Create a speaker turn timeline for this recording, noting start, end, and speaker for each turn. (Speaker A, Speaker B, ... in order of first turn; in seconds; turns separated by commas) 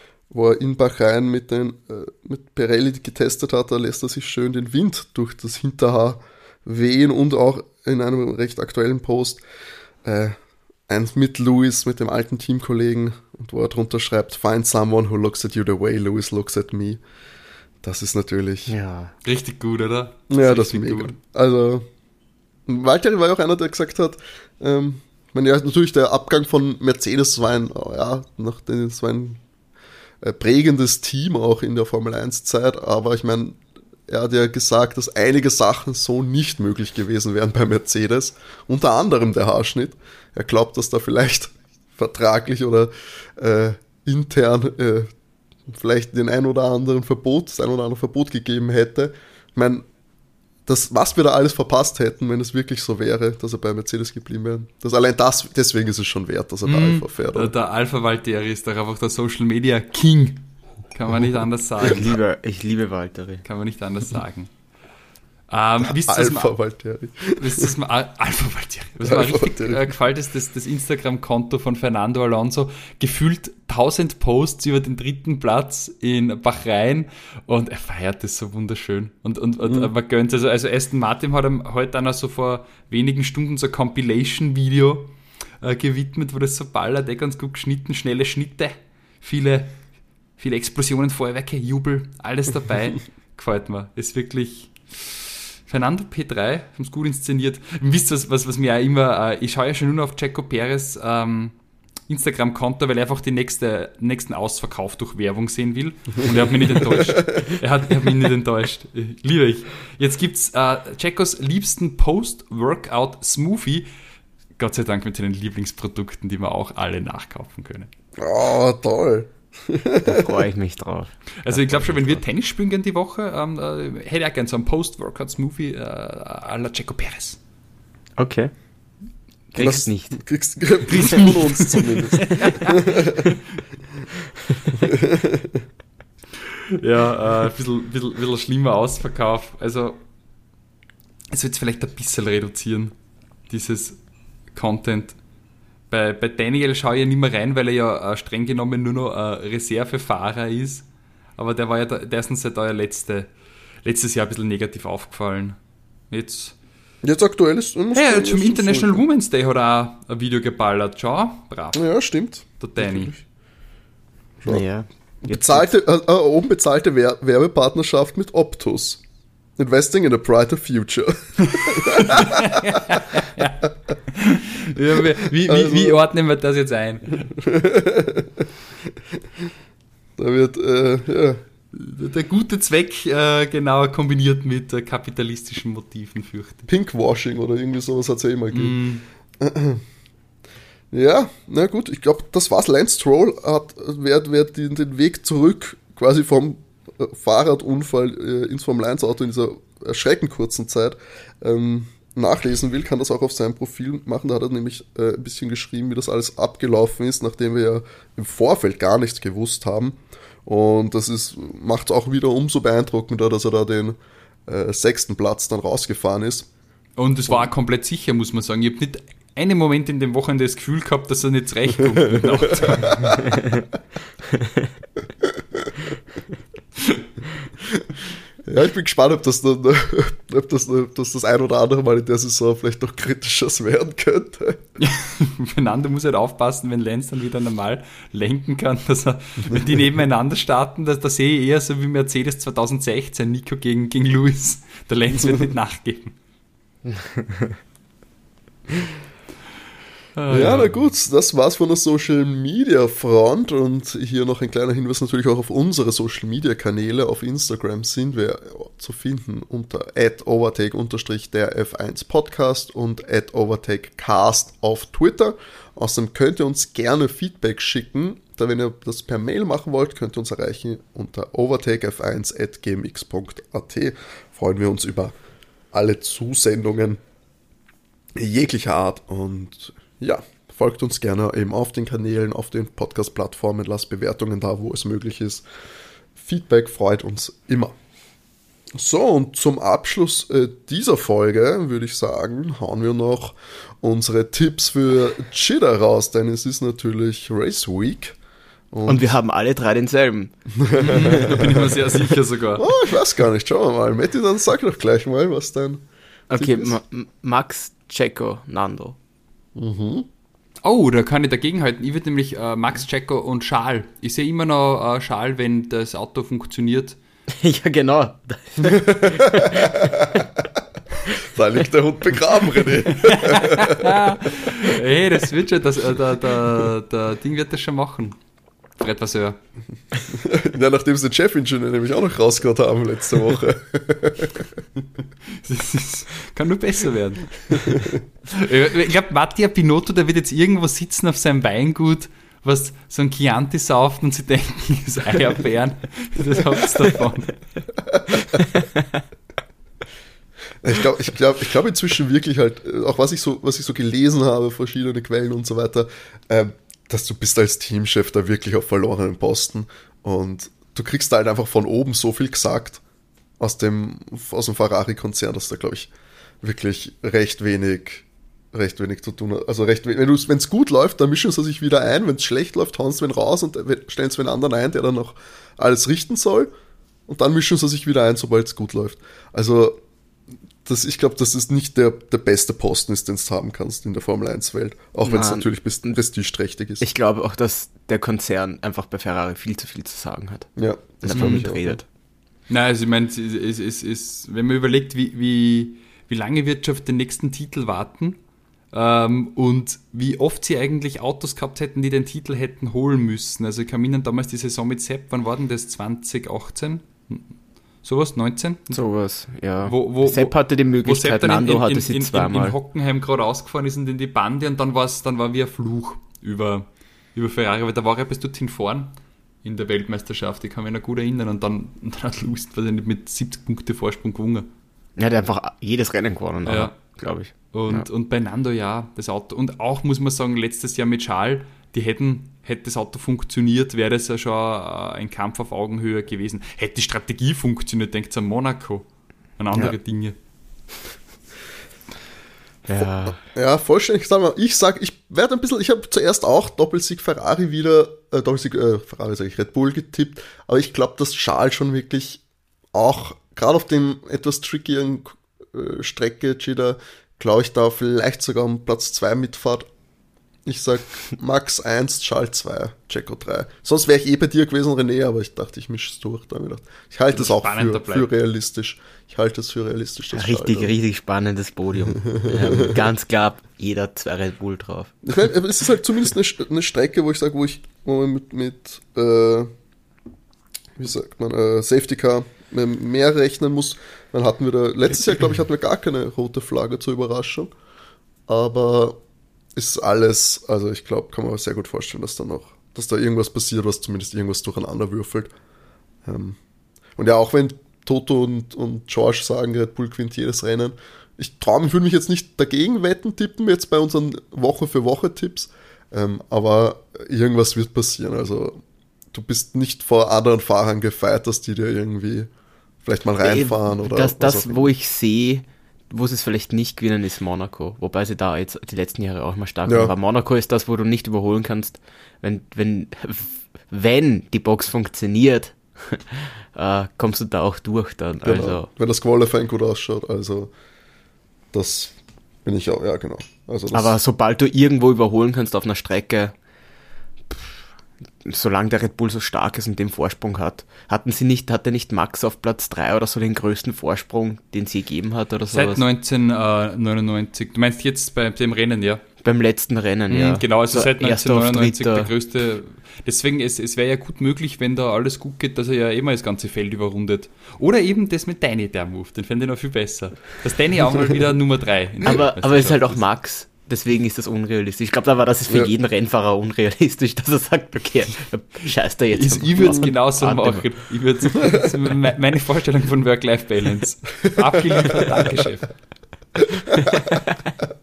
Speaker A: 0.3-9.4, Speaker A: 10.0-17.0, Speaker A: 17.8-18.8, Speaker B: 18.7-19.1, Speaker C: 19.2-21.1, Speaker A: 20.3-21.9, Speaker A: 22.7-29.4, Speaker A: 30.2-45.1, Speaker A: 45.7-49.8, Speaker A: 50.7-57.5, Speaker C: 56.7-62.2, Speaker B: 61.8-63.4, Speaker C: 63.4-64.5, Speaker C: 65.5-66.5, Speaker A: 65.8-67.7, Speaker C: 67.4-89.8, Speaker A: 69.0-69.9, Speaker A: 79.7-79.9, Speaker C: 90.4-101.5, Speaker C: 102.1-113.9, Speaker A: 107.0-107.5, Speaker C: 114.6-117.9, Speaker A: 118.2-120.3, Speaker B: 120.0-122.2, Speaker C: 121.5-127.4, Speaker B: 128.2-128.5, Speaker B: 129.5-130.2, Speaker A: 129.6-133.3, Speaker C: 130.9-132.8, Speaker A: 134.7-135.6, Speaker C: 136.5-140.0, Speaker C: 141.3-142.9, Speaker C: 143.5-144.0, Speaker C: 144.5-145.2, Speaker C: 145.9-150.8, Speaker C: 151.4-153.3, Speaker C: 153.8-155.6, Speaker C: 156.1-156.6, Speaker A: 157.0-159.0, Speaker C: 157.9-161.9, Speaker A: 161.7-163.2, Speaker C: 162.4-163.2, Speaker B: 164.5-165.7, Speaker A: 165.2-169.0, Speaker A: 169.6-172.8, Speaker C: 171.7-177.3, Speaker A: 175.4-176.0, Speaker A: 177.4-178.4, Speaker A: 180.2-181.4, Speaker C: 181.7-186.7, Speaker A: 186.7-188.8, Speaker C: 188.5-189.1, Speaker A: 189.4-189.8, Speaker A: 190.9-216.5, Speaker C: 217.0-223.4, Speaker A: 222.1-223.4, Speaker A: 225.6-225.9, Speaker A: 228.5-234.6, Speaker C: 234.8-246.2, Speaker B: 246.9-247.6, Speaker C: 250.2-250.9, Speaker A: 250.3-275.1, Speaker A: 275.7-277.0, Speaker A: 278.2-285.4, Speaker A: 286.2-287.7, Speaker A: 288.8-298.2, Speaker A: 298.7-299.2, Speaker B: 298.9-300.4, Speaker A: 300.6-301.8, Speaker C: 300.8-302.7, Speaker B: 300.9-301.4, Speaker A: 302.6-305.8, Speaker B: 306.3-309.0, Speaker A: 306.3-306.8, Speaker A: 309.6-310.1, Speaker C: 310.6-317.0, Speaker B: 317.3-320.2, Speaker A: 318.6-320.4, Speaker A: 321.1-324.7, Speaker C: 323.0-328.2, Speaker C: 328.8-329.4, Speaker A: 330.1-334.4, Speaker C: 335.3-347.4, Speaker A: 337.5-338.0, Speaker A: 347.9-348.4, Speaker B: 348.5-348.8, Speaker A: 350.6-362.8, Speaker A: 363.4-365.9, Speaker A: 366.4-376.5, Speaker A: 377.1-379.8, Speaker A: 380.6-386.9, Speaker B: 385.0-385.9, Speaker B: 386.8-390.5, Speaker A: 390.6-391.8, Speaker B: 391.0-391.8, Speaker C: 391.1-391.5, Speaker C: 392.5-398.2, Speaker C: 398.7-407.2, Speaker C: 407.8-408.8, Speaker B: 408.7-412.6, Speaker C: 409.7-424.5, Speaker B: 425.0-427.9, Speaker C: 426.4-426.8, Speaker C: 427.5-438.9, Speaker C: 439.4-440.1, Speaker B: 442.7-443.2, Speaker A: 443.3-452.2, Speaker A: 452.7-459.7, Speaker A: 460.5-470.8, Speaker C: 467.1-468.1, Speaker B: 470.1-475.0, Speaker A: 472.1-472.8, Speaker A: 475.1-479.5, Speaker A: 480.8-487.5, Speaker A: 488.3-489.0, Speaker A: 489.6-495.3, Speaker A: 496.1-496.4, Speaker A: 497.0-508.6, Speaker A: 509.1-512.3, Speaker A: 512.8-514.7, Speaker B: 513.2-528.7, Speaker A: 519.7-519.9, Speaker A: 528.2-530.5, Speaker A: 531.5-531.9, Speaker A: 532.5-534.0, Speaker B: 533.7-536.3, Speaker B: 538.2-545.8, Speaker C: 545.5-549.0, Speaker B: 549.2-552.1, Speaker C: 550.1-563.0, Speaker B: 562.0-570.7, Speaker C: 569.1-575.8, Speaker B: 576.9-577.5